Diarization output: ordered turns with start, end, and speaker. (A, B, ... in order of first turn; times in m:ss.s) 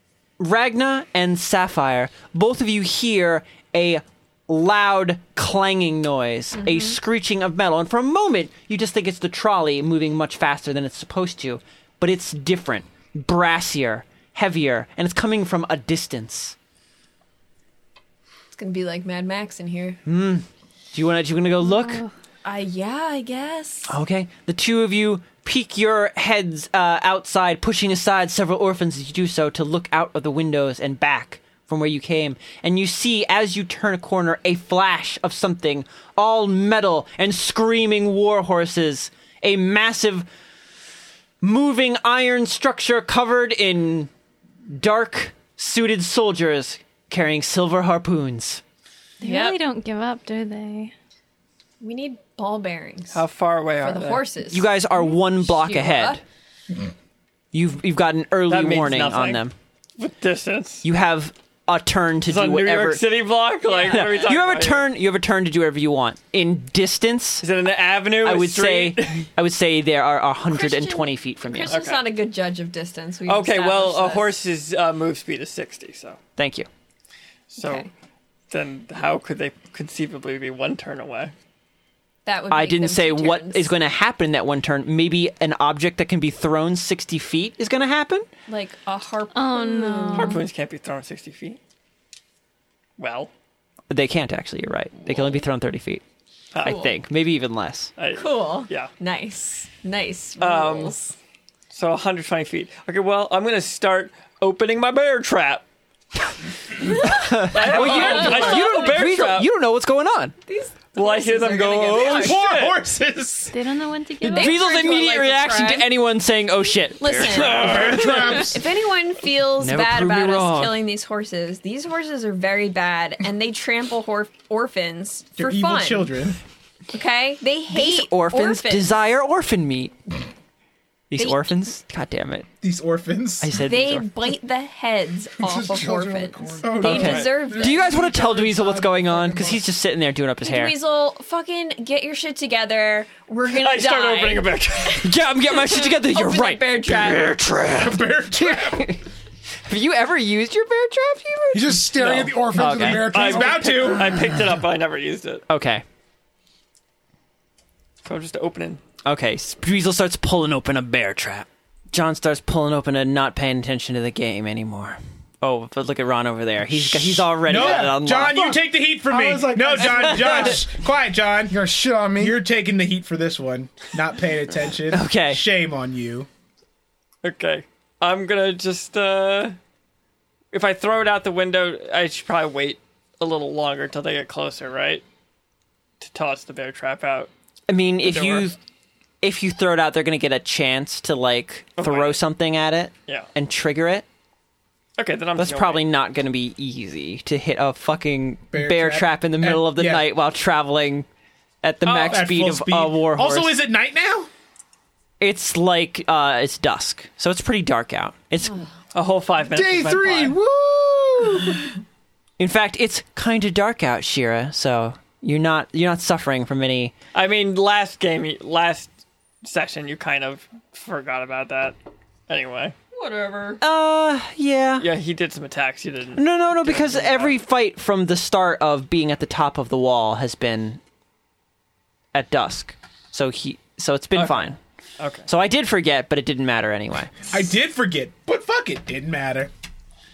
0:00.4-0:16.5 A
0:06.5-0:07.0 B
0:18.5-0:20.0 B
0:20.0-0:22.0 A
0:21.7-0:22.1 C
0:22.4-0:24.0 B
0:23.9-0:40.3 A
0:41.4-0:44.1 A
0:44.7-0:48.6 A
0:49.2-0:49.6 B
0:49.2-0:50.9 C
0:51.8-0:53.2 B
0:53.1-0:54.2 D
0:53.8-0:56.2 B
0:54.5-0:56.2 A
0:57.5-0:59.5 A
0:58.5-0:59.4 D
1:00.0-1:00.8 D
1:00.8-1:03.0 A
1:02.2-1:04.9 D
1:03.6-1:04.3 B
1:03.9-1:07.4 A
1:07.4-1:09.3 D
1:08.2-1:11.8 A
1:10.5-1:14.4 B
1:11.7-1:12.0 D
1:13.2-1:16.2 D
1:16.4-1:16.7 A
1:17.5-1:17.9 D
1:17.6-1:17.9 B
1:18.5-1:21.3 D
1:22.2-1:23.7 B
1:22.5-1:28.3 A
1:28.5-1:30.4 B
1:29.3-1:30.4 C
1:30.1-1:31.6 D
1:33.0-1:33.3 D
1:33.9-1:36.0 A
1:36.5-1:36.8 D
1:36.6-1:37.0 B
1:36.6-1:37.9 A
1:38.0-1:38.9 D
1:38.1-1:41.1 B
1:40.4-1:41.0 D
1:41.7-1:45.6 D
1:46.8-1:49.0 B
1:47.0-1:50.3 A
1:47.5-1:49.4 D
1:50.5-1:52.5 B
1:50.9-1:52.8 D
1:51.9-1:53.6 E
1:53.5-1:54.7 C
1:54.2-1:57.8 A
1:54.2-1:55.9 B
1:56.8-2:06.1 B
1:57.2-1:58.5 D
1:57.5-1:58.6 E
1:59.6-2:00.8 A
2:05.4-2:06.4 E
2:06.9-2:09.0 B
2:07.7-2:09.9 A
2:11.1-2:12.5 A
2:11.1-2:11.5 B
2:12.6-2:13.6 E
2:13.4-2:14.1 A
2:13.6-2:18.1 B
2:15.4-2:16.9 F
2:16.6-2:18.7 E
2:16.8-2:20.7 A
2:16.8-2:17.3 D
2:18.1-2:19.6 F
2:20.4-2:25.0 B
2:23.5-2:25.1 D
2:25.0-2:29.0 A
2:25.6-2:27.4 B
2:27.6-2:28.9 E
2:29.6-2:31.8 A
2:31.5-2:34.0 F
2:31.9-2:35.4 D
2:32.5-2:33.1 A
2:33.0-2:34.3 E
2:35.5-2:35.8 A
2:38.0-2:38.8 D
2:39.0-2:48.4 A
2:46.7-2:51.6 E
2:47.5-2:50.7 F
2:49.9-2:50.5 A
2:51.5-2:52.4 F
2:52.2-2:56.3 E
2:54.9-2:55.4 A
2:57.2-2:59.6 D
3:00.5-3:05.0 D
3:06.0-3:07.3 D
3:07.7-3:08.6 A
3:08.0-3:08.5 D
3:09.2-3:14.0 A
3:11.8-3:12.2 D
3:15.0-3:15.8 D
3:15.4-3:21.0 A
3:18.5-3:20.0 E
3:21.6-3:23.5 A
3:21.8-3:22.2 D
3:21.9-3:24.3 E
3:25.2-3:28.7 A
3:28.9-3:30.4 D
3:29.5-3:31.6 F
3:32.4-3:36.9 A
3:37.1-3:38.9 D
3:39.4-3:41.7 D
3:42.3-3:42.7 D
3:42.9-3:43.6 B
3:43.6-3:44.9 A
3:44.8-3:47.3 D
3:46.2-3:50.8 A
3:52.1-3:54.6 A
3:54.1-3:55.2 D
3:55.3-3:57.1 A
3:57.3-3:59.5 E